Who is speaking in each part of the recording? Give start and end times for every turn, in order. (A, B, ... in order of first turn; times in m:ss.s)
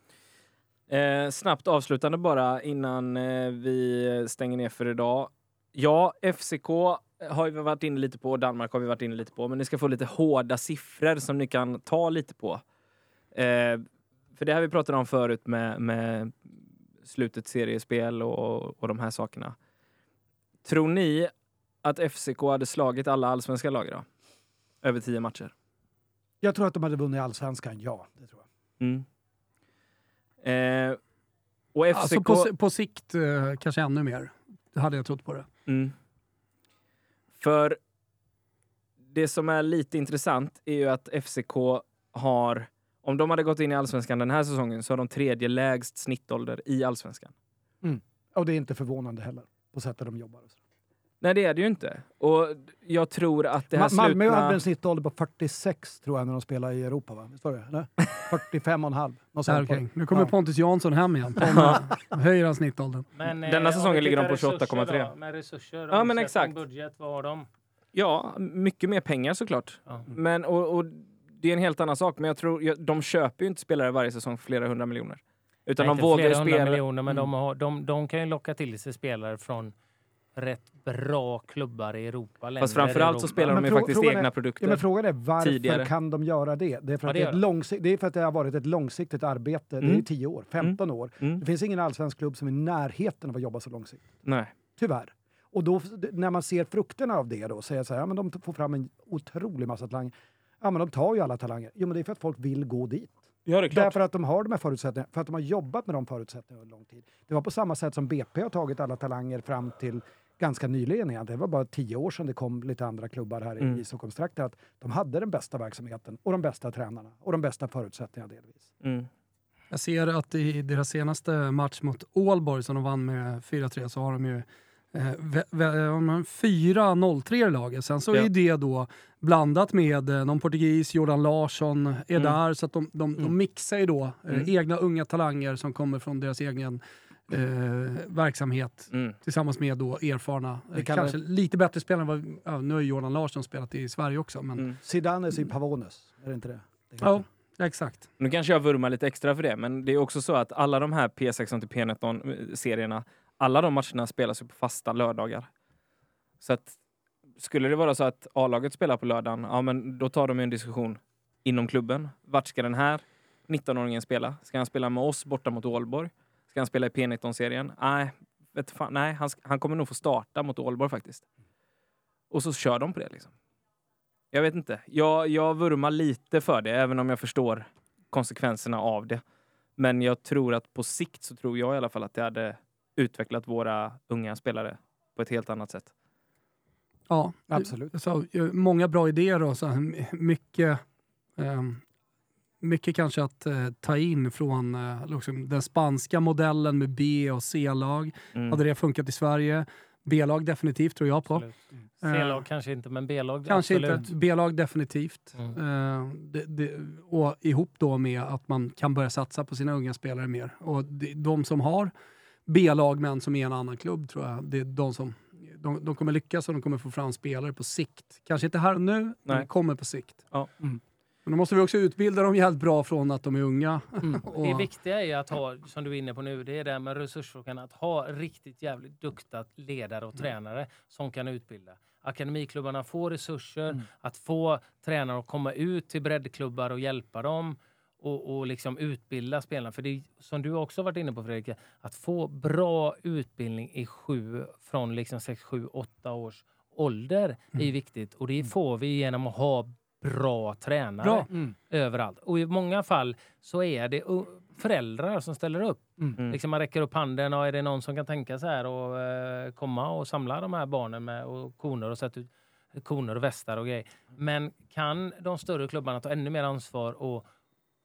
0:00.9-0:12.6 A
0:13.3-0:16.4 A
0:17.0-0:19.6 A
0:20.6-0:21.3 A
0:21.8-0:24.0 A
0:24.8-0:25.5 A
0:26.4-0:28.4 B
0:28.8-0:29.0 A
0:30.4-0:31.0 A
0:31.7-0:32.5 A
0:31.9-0:35.5 C
0:35.7-0:35.9 A
0:37.4-0:37.8 A
0:39.1-0:47.3 A
0:47.8-0:50.6 B
0:51.2-0:54.6 A
0:53.7-1:00.3 B
0:59.5-1:03.1 C
1:01.4-1:01.8 A
1:03.2-1:07.5 D
1:03.4-1:05.1 A
1:05.9-1:06.6 A
1:07.9-1:17.3 A
1:15.8-1:19.7 D
1:20.3-1:23.6 D
1:22.6-1:24.8 A
1:23.4-1:34.1 B
1:25.4-1:25.9 A
1:27.0-1:27.4 D
1:30.6-1:31.4 A
1:34.2-1:34.5 A
1:34.8-1:43.1 B
1:43.4-1:44.0 A
1:43.7-1:58.7 B
1:58.8-1:59.1 A
1:59.7-2:24.7 C
2:20.7-2:21.2 B
2:24.8-2:27.2 B
2:27.0-2:28.1 C
2:28.2-2:35.5 A
2:36.4-2:36.8 A
2:37.4-2:51.2 A
2:52.3-2:53.3 A
2:54.3-2:59.2 A
2:59.8-3:05.9 A
3:07.1-3:10.8 C
3:07.5-3:07.9 B
3:11.4-3:11.8 C
3:12.6-3:21.4 C
3:18.3-3:18.6 A
3:21.3-3:24.1 D
3:22.0-3:22.4 C
3:23.5-3:31.9 C
3:32.4-3:40.3 C
3:41.2-3:44.7 C
3:44.3-4:27.2 D
4:11.0-4:11.3 C